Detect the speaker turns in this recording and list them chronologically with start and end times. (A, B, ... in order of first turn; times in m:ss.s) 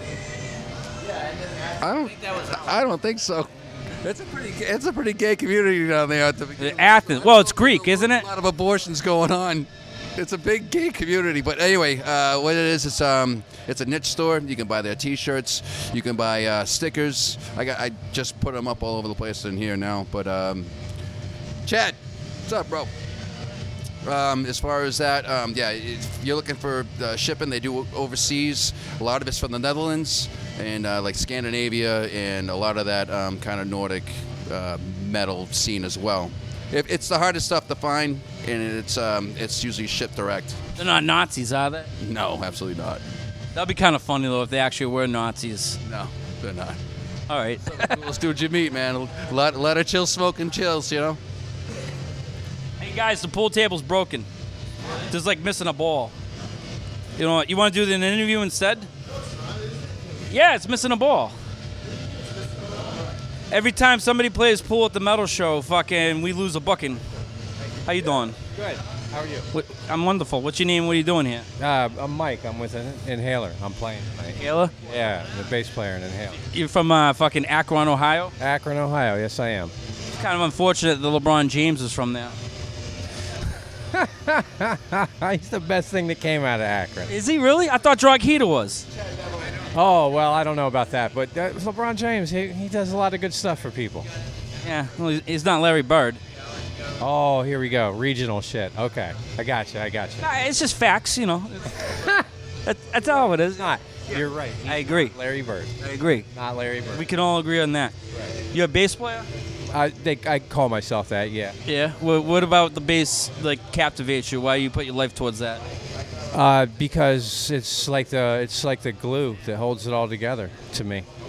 0:01.8-0:03.5 A
0:04.0-0:20.7 A
0:06.6-0:08.2 B
0:21.6-0:22.9 A
0:24.0-0:40.6 A
0:40.8-0:41.9 B
0:42.0-0:43.0 A
0:43.5-0:45.8 B
0:45.8-0:46.8 A
0:47.3-0:48.0 B
0:47.7-0:51.2 A
0:52.8-0:54.3 B
0:55.1-0:56.1 B
0:57.2-0:58.9 B
1:00.3-1:01.3 B
1:03.5-1:07.0 B
1:07.8-1:08.4 B
1:08.5-1:09.5 C
1:09.5-1:11.5 B
1:11.6-1:16.4 C
1:14.4-1:14.7 B
1:16.5-1:18.3 B
1:18.4-1:19.7 C
1:20.1-1:22.3 B
1:23.9-1:27.1 C
1:27.1-1:28.8 B
1:29.7-1:34.1 C
1:34.6-1:36.2 B
1:37.0-1:40.3 C
1:40.2-1:42.1 B
1:41.9-1:42.2 C
1:42.6-1:45.1 B
1:43.5-1:45.7 C
1:45.8-1:46.3 B
1:46.3-1:47.0 C
1:46.9-1:47.9 B
1:48.5-1:49.3 B
1:49.7-1:51.6 C
1:51.6-1:55.6 B
1:56.3-2:01.1 C